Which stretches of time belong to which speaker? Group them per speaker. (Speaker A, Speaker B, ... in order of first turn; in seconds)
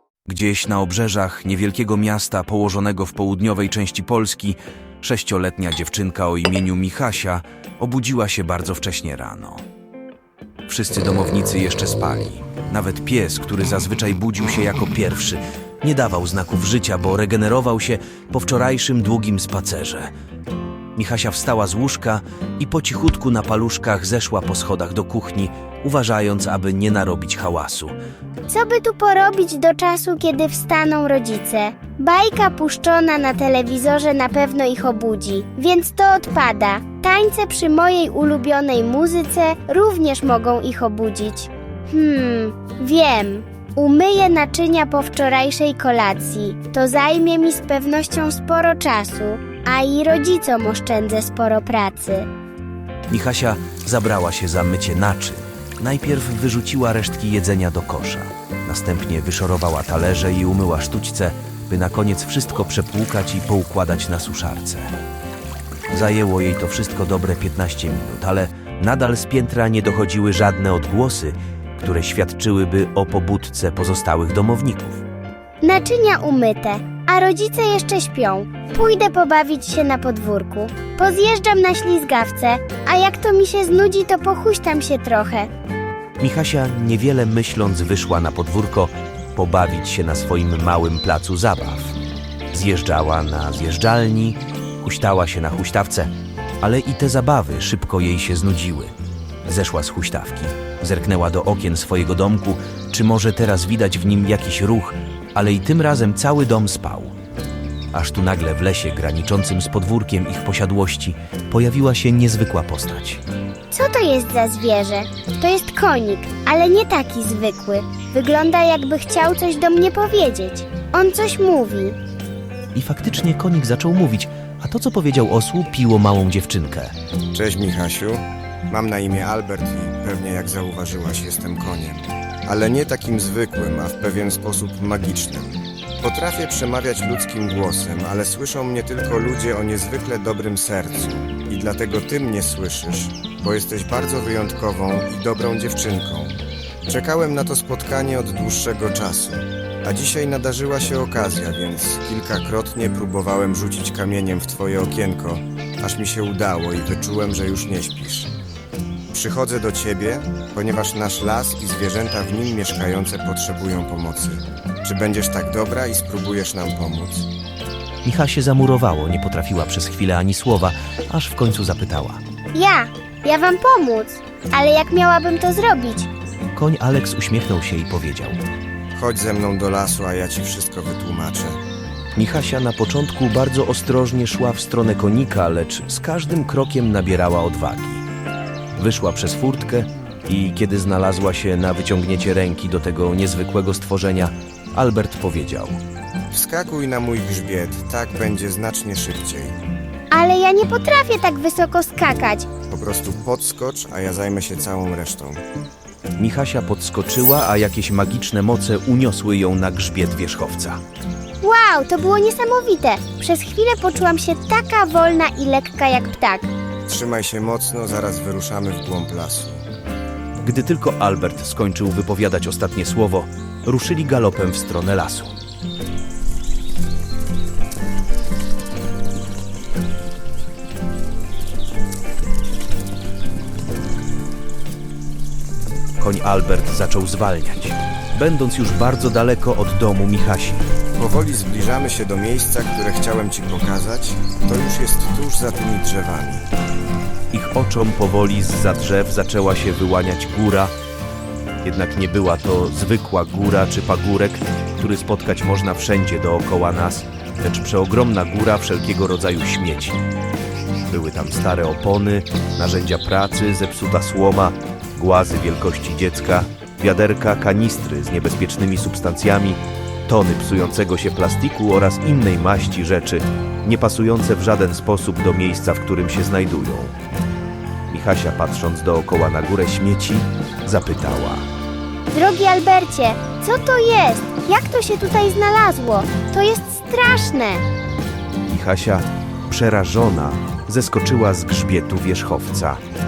Speaker A: 0.3-9.6, 10.7-20.1, 20.9-27.9, 53.1-64.9, 65.9-75.0, 86.2-92.0, 92.5-98.9, 99.4-107.1, 107.9-113.2, 122.7-126.9, 168.0-172.2, 176.6-178.4, 182.2-188.0, 188.8-195.8, 206.2-210.8, 220.4-225.3, 236.0-240.7, 247.3-250.7, 251.6-260.0, 260.9-276.9, 277.9-281.5, 288.5-292.8
Speaker B: 28.5-52.3, 75.6-85.5, 113.7-122.0, 172.5-176.1, 200.1-202.5, 211.4-216.5, 282.1-287.6
Speaker C: 127.3-158.3, 159.1-167.3, 178.9-181.6, 196.3-199.5, 202.7-205.4, 216.9-219.6, 241.0-246.5